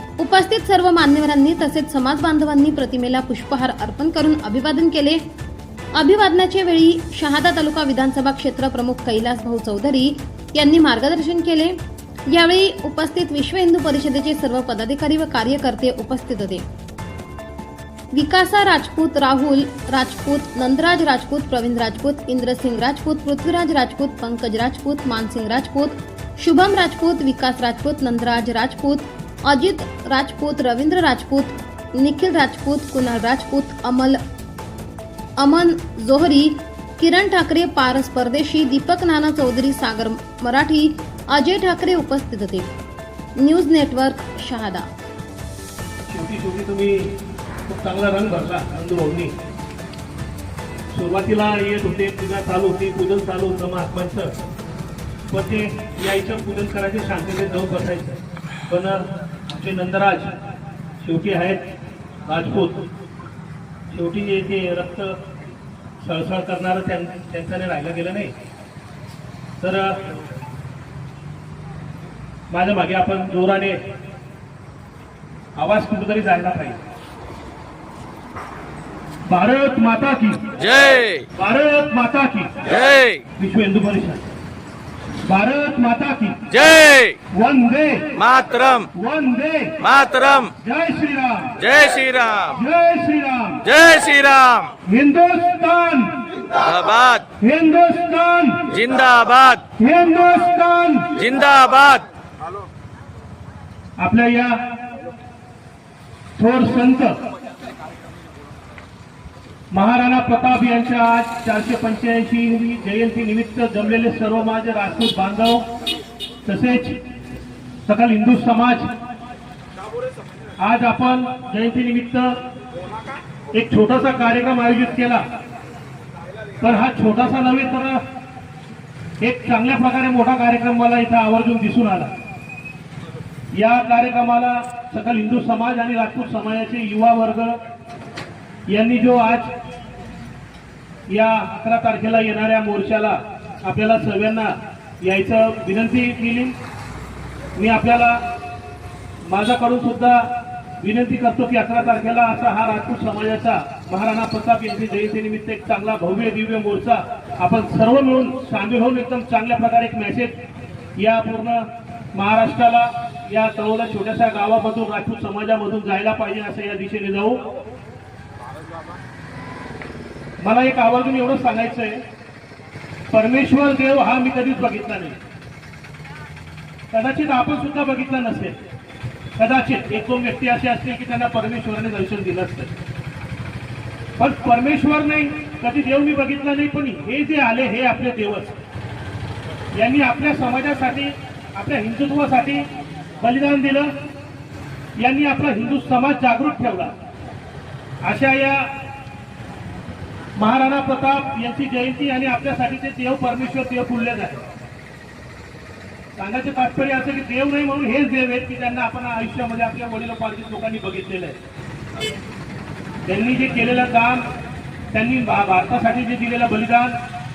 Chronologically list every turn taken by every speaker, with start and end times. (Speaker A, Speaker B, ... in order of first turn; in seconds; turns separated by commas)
Speaker A: 0.2-5.2, Speaker A: 6.0-16.7, Speaker A: 18.1-34.2, Speaker A: 35.4-42.7, Speaker A: 43.4-44.9, Speaker B: 46.1-49.3, Speaker B: 50.9-54.3, Speaker B: 55.3-60.3, Speaker B: 61.0-61.7, Speaker B: 62.3-62.9, Speaker B: 63.9-65.2, Speaker B: 66.0-68.3, Speaker B: 69.6-70.0, Speaker B: 72.5-73.8, Speaker B: 75.6-76.8, Speaker B: 79.3-80.7, Speaker C: 80.9-81.2, Speaker B: 81.3-84.2, Speaker B: 85.2-93.9, Speaker C: 86.8-87.1, Speaker C: 88.4-88.7, Speaker C: 91.8-92.4, Speaker C: 93.8-94.7, Speaker B: 94.8-96.6, Speaker C: 96.8-97.2, Speaker B: 97.4-99.0, Speaker C: 99.0-99.5, Speaker B: 99.5-101.4, Speaker C: 101.4-102.0, Speaker B: 104.0-104.7, Speaker B: 106.4-107.2, Speaker B: 109.7-115.7, Speaker B: 116.5-117.0, Speaker B: 117.9-118.9, Speaker B: 120.6-122.4, Speaker B: 123.5-125.2, Speaker B: 126.6-128.0, Speaker B: 129.2-132.1, Speaker B: 133.5-137.6, Speaker B: 138.7-139.5, Speaker B: 141.1-146.6, Speaker B: 147.6-148.2, Speaker B: 149.2-150.3, Speaker B: 150.8-160.3, Speaker B: 161.0-167.4, Speaker B: 170.4-172.0, Speaker B: 173.1-175.2, Speaker B: 176.9-178.6, Speaker B: 179.4-182.8, Speaker B: 184.2-188.6, Speaker B: 189.7-192.7, Speaker B: 193.2-193.9, Speaker B: 195.0-196.9, Speaker B: 198.0-198.7, Speaker B: 200.4-204.5, Speaker B: 206.2-211.4, Speaker B: 213.1-214.3, Speaker B: 214.9-217.0